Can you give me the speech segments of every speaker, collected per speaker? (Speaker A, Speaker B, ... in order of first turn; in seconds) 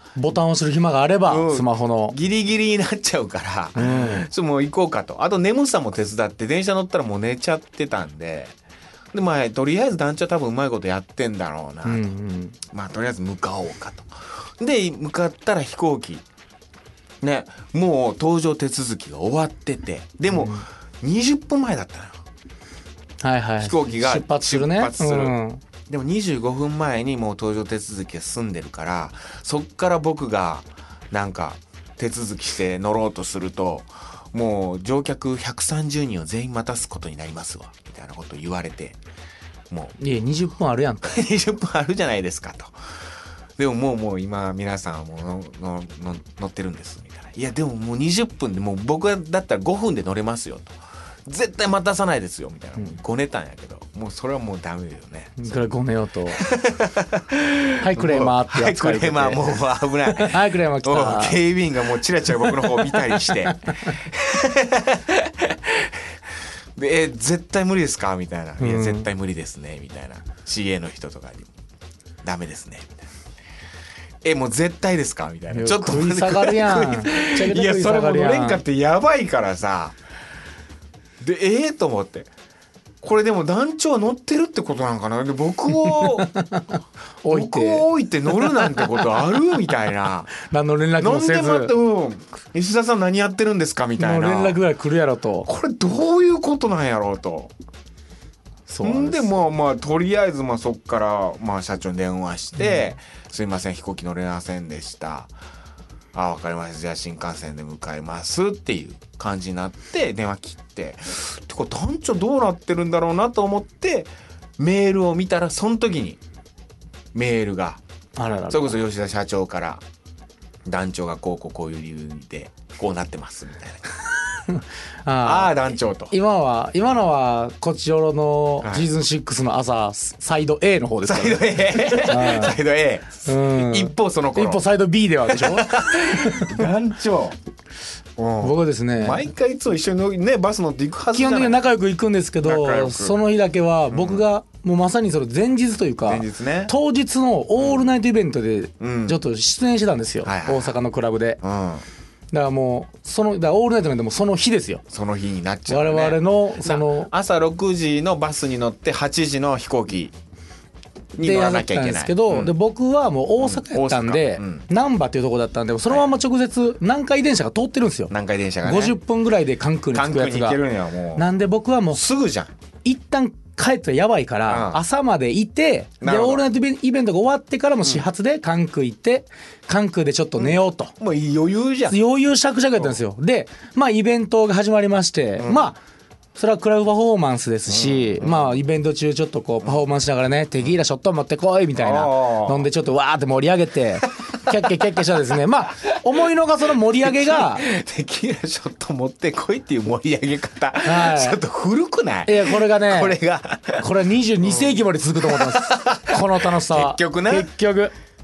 Speaker A: 0.1-2.1, 3.7-4.3, 11.8-12.6, 20.3-20.6, 23.2-25.6, 40.0-41.2, 55.4-56.4, 57.8-61.4, 62.4-63.7, 68.6-69.1, 75.5-78.6, 85.7-89.1, 90.4-91.7, 94.0-95.5, 98.7-99.3, 102.6-102.9, 118.2-118.8, 124.5-132.6, 133.2-136.7, 138.4-139.3, 141.1-151.4, 152.3-154.8, 155.7-157.1, 161.2-168.1, 168.6-170.6, 171.2-172.0, 172.8-180.9, 181.9-185.8, 186.3-197.6, 200.8-201.4, 202.2-203.2, 203.8-207.9
Speaker B: 1.2-8.5, 9.1-12.1, 12.7-16.2, 17.2-22.2, 23.6-25.4, 25.9-39.0, 39.7-39.9, 41.0-42.7, 43.6-50.7, 51.2-55.7, 56.3-66.1, 66.8-71.5, 72.2-73.0, 74.2-80.0, 81.2-82.3, 83.0-86.3, 87.3-90.3, 91.0-94.6, 95.4-97.5, 98.8-105.3, 106.1-116.2, 117.1-117.8, 118.5-119.8, 120.7-124.0, 125.2-126.1, 128.6-128.9, 131.0-134.6, 135.3-137.4, 138.2-141.6, 142.4-143.2, 143.9-144.2, 146.0-146.7, 147.6-147.9, 148.8-149.2, 150.2-150.7, 151.4-151.8, 154.9-160.1, 161.2-162.5, 163.4-164.6, 168.1-169.0, 169.9-171.3, 171.9-172.5, 174.4-174.8, 176.0-176.4, 180.4-182.0, 185.4-185.7, 187.7-188.6, 191.8-192.7, 197.0-203.9, 204.4-207.5